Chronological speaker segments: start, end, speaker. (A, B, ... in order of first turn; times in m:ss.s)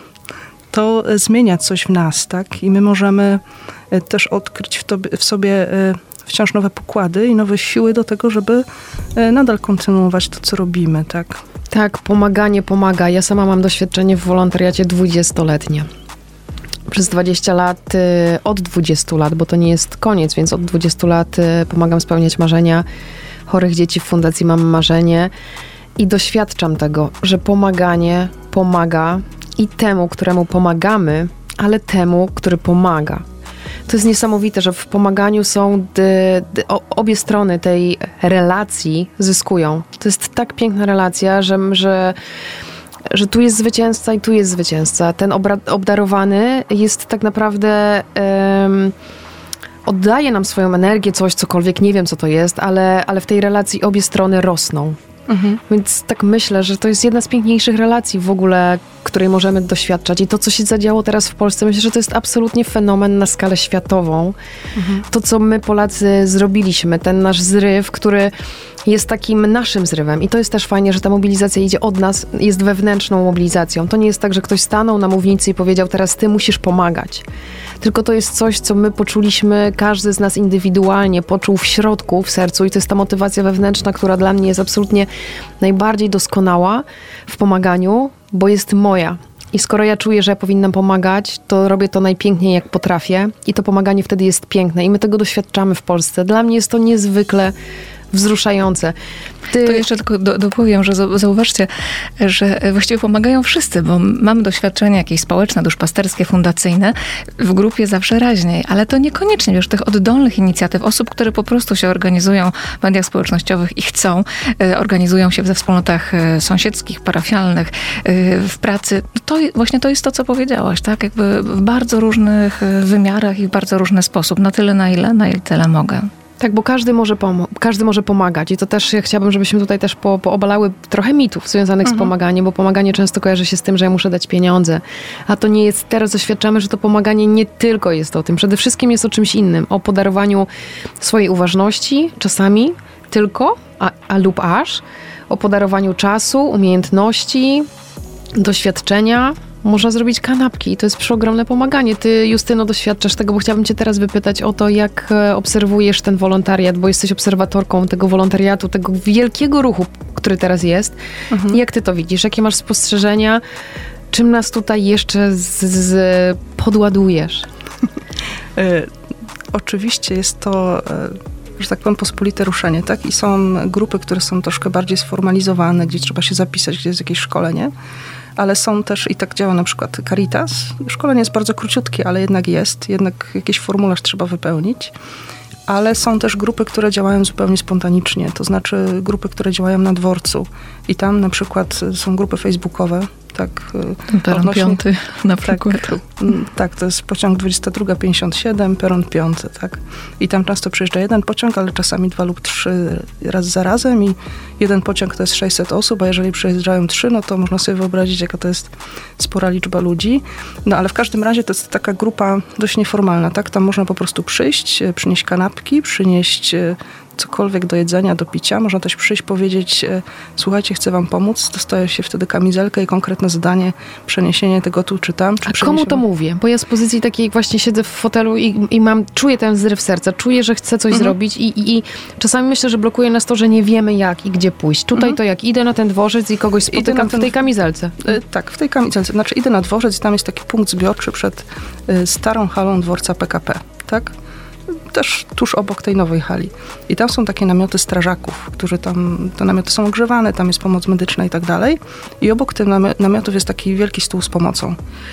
0:00.7-0:11.4 A
0:11.7-0:15.9 B
0:16.9-0:22.8 B
0:23.5-0:25.3 B
0:26.0-0:33.2 B
0:33.9-0:42.2 B
0:43.1-0:48.9 B
0:49.8-0:55.0 B
0:55.3-0:55.6 A
0:55.7-1:04.4 B
1:04.8-1:05.0 A
1:05.1-1:08.3 B
1:08.8-1:17.2 B
1:17.8-1:25.1 B
1:25.6-1:37.5 B
1:38.1-1:38.9 B
1:39.5-1:39.8 B
1:39.6-2:06.1 C
2:06.4-2:20.5 B
2:21.0-2:27.7 B
2:28.3-2:41.0 B
2:41.3-2:41.6 A
2:41.5-2:43.4 B
2:44.1-2:47.5 B
2:48.6-2:48.9 A
2:49.5-2:57.7 A
2:58.4-3:04.9 A
3:05.7-3:14.8 A
3:14.1-3:16.0 C
3:15.4-3:46.0 A
3:45.4-3:58.1 B
3:56.7-3:57.4 A
3:58.0-4:04.1 A
4:04.7-4:14.8 A